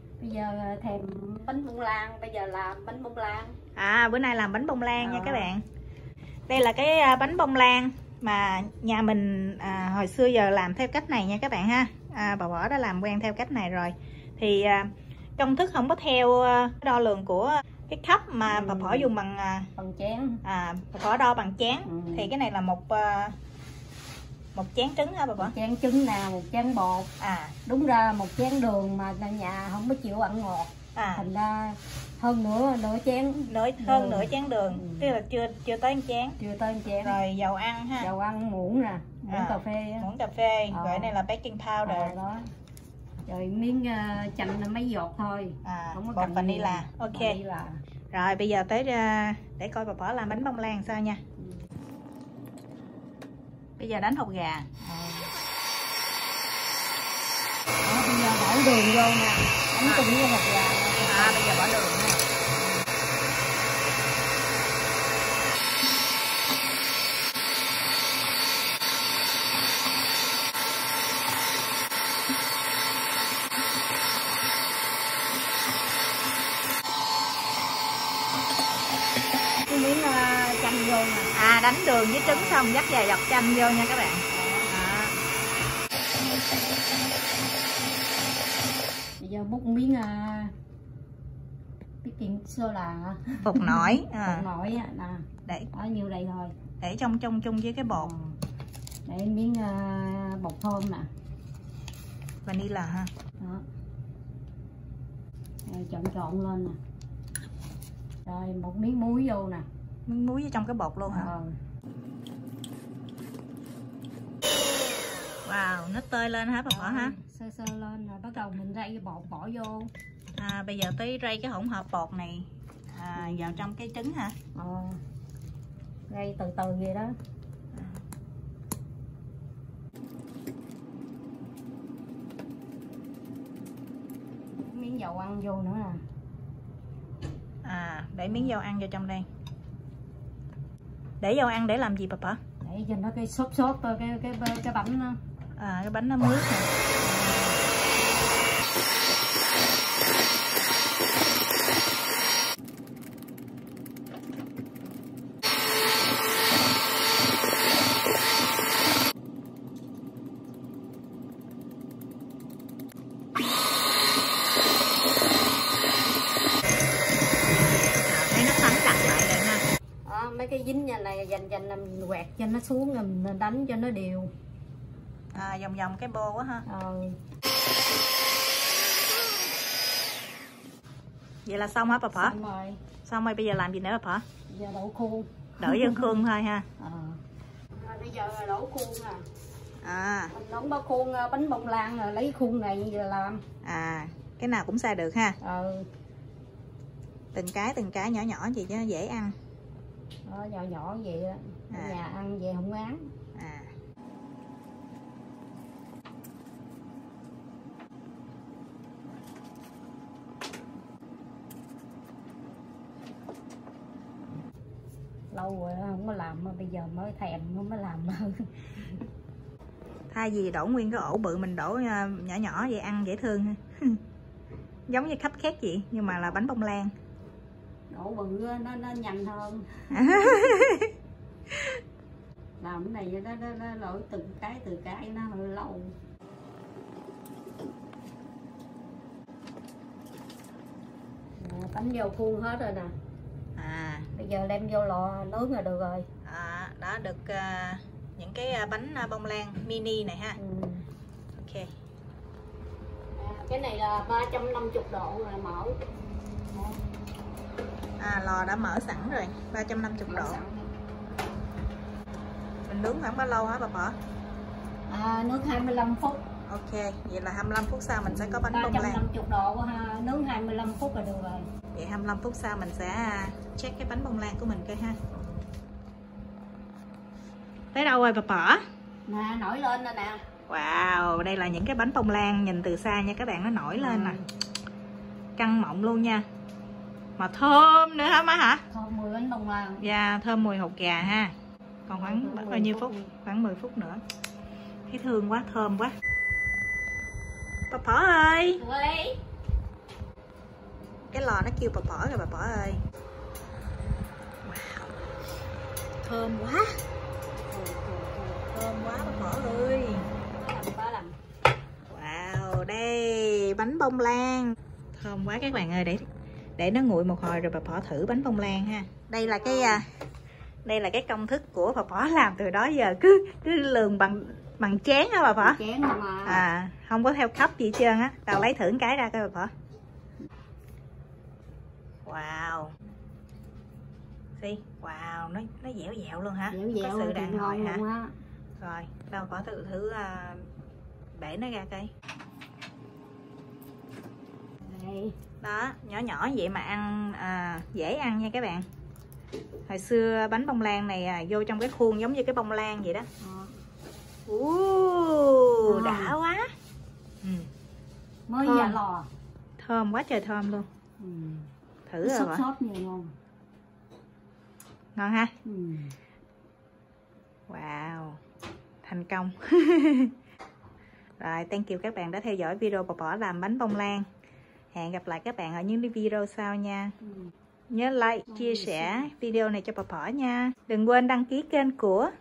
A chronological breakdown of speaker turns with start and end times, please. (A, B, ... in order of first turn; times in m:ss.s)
0:00.2-0:03.6 A
0:03.8-0:05.6 B
0:05.0-0:05.5 A
0:06.5-0:19.7 B
0:18.5-0:19.1 A
0:19.8-0:20.4 A
0:20.4-0:23.3 B
0:21.8-0:22.3 A
0:24.5-0:25.5 B
0:25.4-0:27.1 A
0:27.2-0:27.5 B
0:27.6-0:35.1 A
0:30.9-0:31.2 B
0:33.5-0:36.4 B
0:36.4-0:37.2 A
0:37.0-0:38.1 B
0:38.0-0:40.1 A
0:39.3-0:42.1 B
0:40.7-0:41.1 A
0:41.8-0:42.4 A
0:43.2-0:47.8 A
0:45.6-0:47.4 B
0:48.1-0:51.2 B
0:53.8-0:54.7 B
0:54.8-0:55.3 A
0:57.8-1:01.4 A
1:01.0-1:02.2 B
1:19.7-1:21.3 A
1:21.3-1:25.1 B
1:22.2-1:22.6 A
1:24.3-1:24.7 A
1:29.2-1:30.5 A
1:32.0-1:36.5 A
1:33.4-1:34.4 B
1:36.8-1:38.1 B
1:37.9-1:38.4 A
1:39.0-1:41.1 A
1:42.4-1:43.1 B
1:45.7-1:46.8 A
1:48.2-1:49.6 A
1:50.1-1:51.3 B
1:51.1-1:51.5 A
1:55.4-1:57.2 B
1:56.7-1:59.9 A
2:00.4-2:04.3 B
2:03.2-2:03.6 A
2:04.5-2:05.0 A
2:06.1-2:07.1 A
2:07.7-2:08.0 B
2:14.6-2:16.0 A
2:17.6-2:19.2 B
2:21.2-2:22.4 B
2:22.6-2:25.2 A
2:25.6-2:26.7 B
2:27.0-2:27.6 A
2:47.8-2:49.6 B
2:50.0-2:54.3 A
2:55.3-2:56.6 B
2:56.6-2:57.2 A
3:01.4-3:02.3 B
3:02.2-3:02.8 A
3:03.0-3:04.2 B
3:04.5-3:06.2 A
3:05.6-3:06.6 B
3:06.8-3:07.2 A
3:07.7-3:09.2 A
3:09.8-3:10.3 B
3:10.3-3:13.4 A
3:13.6-3:15.4 B
3:15.4-3:15.9 A
3:17.3-3:19.3 B
3:20.2-3:23.1 A
3:21.7-3:22.0 B
3:23.3-3:23.7 B
3:35.3-3:38.5 A
3:40.1-3:44.0 B
3:44.9-3:46.9 B
3:47.9-3:50.4 A
3:49.9-3:50.9 B
3:52.6-3:55.9 A
4:01.4-4:02.9 A
4:03.6-4:04.1 B
4:04.2-4:06.1 A
4:06.2-4:10.4 B
4:10.4-4:10.8 A
4:11.3-4:11.7 B
4:13.1-4:15.8 A
4:16.5-4:16.8 A
4:18.0-4:20.4 B
4:20.1-4:20.7 A
4:22.7-4:24.0 B
4:24.9-4:26.2 A
4:26.5-4:29.0 B
4:28.0-4:31.5 A
4:31.7-4:35.0 B
4:37.7-4:38.6 B
4:39.1-4:40.2 A
4:40.5-4:44.2 B
4:43.8-4:44.2 A
4:45.4-4:46.2 B
4:47.2-4:48.6 B
4:48.7-4:49.8 A
4:49.8-4:51.3 B
4:51.9-4:54.0 B
4:51.9-4:53.1 A
4:54.9-4:55.9 B
4:57.7-4:58.6 B
4:58.6-4:59.2 A
5:01.1-5:02.8 B
5:04.4-5:04.9 B
5:06.0-5:06.8 B
5:07.5-5:08.4 A
5:08.4-5:10.1 B
5:10.3-5:11.1 A
5:11.9-5:16.0 B
5:16.6-5:19.8 B
5:19.3-5:19.8 A
5:20.6-5:25.6 B
5:25.4-5:26.4 A
5:26.2-5:29.5 B
5:32.0-5:32.7 B
5:34.4-5:37.8 B
5:36.5-5:38.1 A
5:38.6-5:40.5 B
5:41.1-5:41.9 B
5:44.6-5:45.1 A
5:45.4-5:48.6 B
5:49.7-5:53.1 B
5:53.2-5:53.5 A
5:54.3-5:56.5 B
5:55.6-5:56.1 A
5:58.3-5:59.1 A
5:58.4-5:58.8 B
5:59.6-6:00.7 B
6:01.0-6:01.5 A
6:01.9-6:02.4 B
6:02.0-6:03.1 A
6:04.9-6:05.3 B
6:05.4-6:05.9 A
6:07.5-6:08.2 B
6:08.8-6:10.1 B
6:11.2-6:14.0 B
6:14.7-6:16.9 B
6:17.0-6:17.3 A
6:17.7-6:22.1 B
6:18.3-6:19.1 A